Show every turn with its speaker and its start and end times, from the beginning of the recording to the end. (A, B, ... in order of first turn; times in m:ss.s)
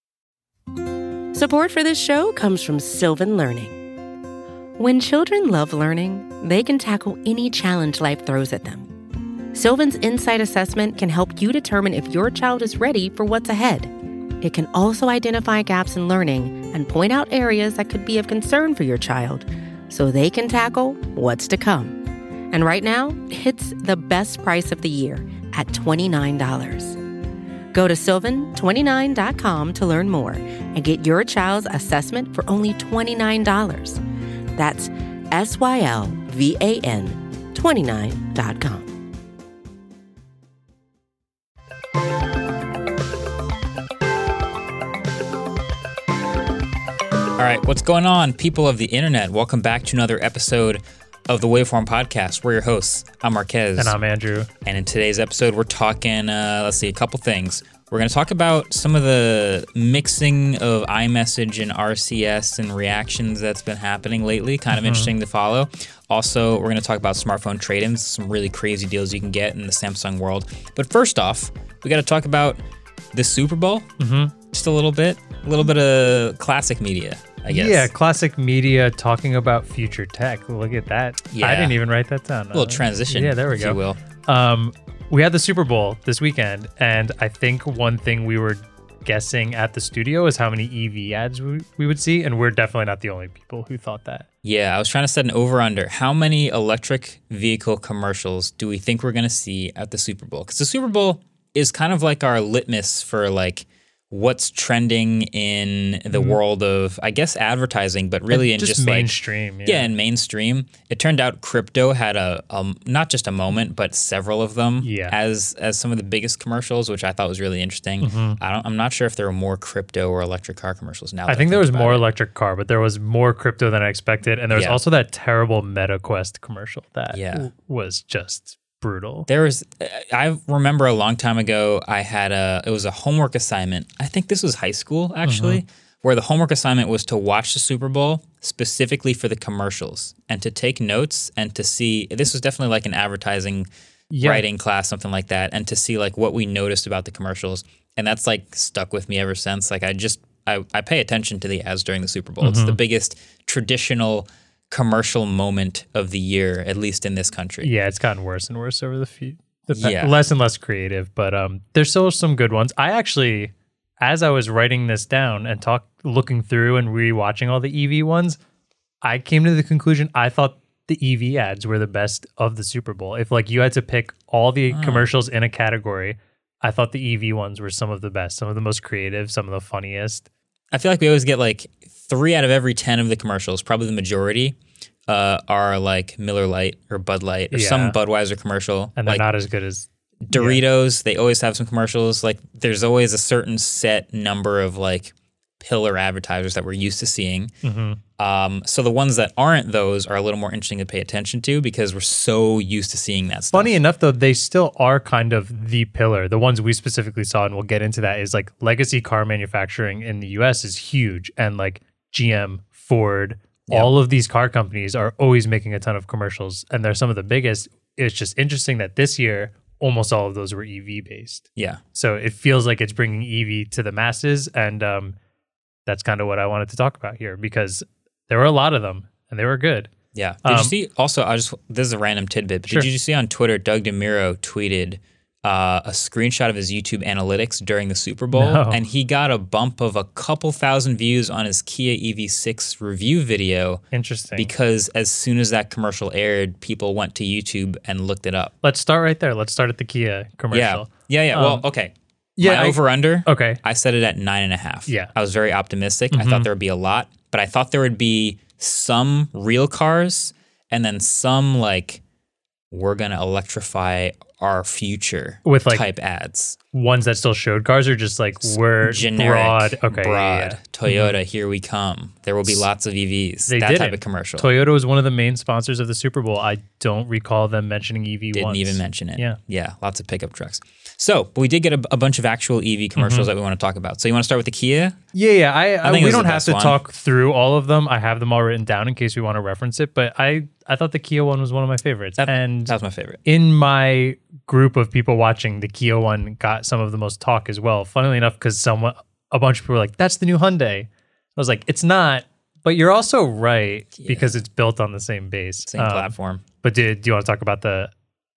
0:01.3-0:03.8 A
0:04.8-0:08.9 A
0:09.5-0:27.0 A
0:27.7-0:34.0 A
0:34.6-0:39.0 A
0:47.4-0:54.0 B
0:53.8-0:54.5 C
0:54.6-1:12.6 B
1:04.7-1:05.1 C
1:13.1-1:13.9 B
1:14.0-1:14.3 C
1:14.5-1:17.9 B
1:17.5-1:34.3 C
1:21.3-1:21.8 B
1:22.5-1:24.0 B
1:34.4-1:49.1 B
1:46.1-1:46.4 C
1:48.3-1:49.9 C
1:49.6-2:02.0 B
1:54.8-1:55.2 C
1:58.0-1:58.4 C
2:01.3-2:09.3 C
2:04.5-2:04.8 B
2:07.1-2:07.5 B
2:09.3-2:23.7 B
2:15.2-2:15.6 C
2:24.1-2:24.4 C
2:24.2-2:37.7 B
2:32.4-2:32.8 C
2:37.6-2:48.4 C
2:39.7-2:40.2 B
2:49.0-3:00.3 C
2:54.7-2:55.1 B
3:00.7-3:04.6 B
3:05.1-3:09.2 B
3:07.5-3:08.0 C
3:09.0-3:10.6 C
3:10.2-3:17.5 B
3:17.6-3:18.0 C
3:18.2-3:23.8 B
3:23.5-3:45.2 C
3:45.9-3:49.9 C
3:50.2-4:03.8 B
3:50.4-3:50.7 C
3:58.3-3:58.8 C
4:03.9-4:04.5 C
4:04.4-4:08.5 B
4:08.6-4:11.6 C
4:10.5-4:22.0 B
4:12.4-4:13.6 C
4:14.9-4:15.1 C
4:16.1-4:16.5 C
4:22.7-4:26.6 B
4:25.4-4:25.8 C
4:26.7-4:31.2 C
4:28.4-4:34.5 B
4:33.5-4:39.4 C
4:38.3-4:45.0 B
4:43.0-4:43.3 C
4:45.1-4:52.8 C
4:45.8-4:46.8 B
4:52.2-4:53.2 B
4:53.3-5:07.9 C
5:04.0-5:04.4 B
5:05.7-5:06.4 B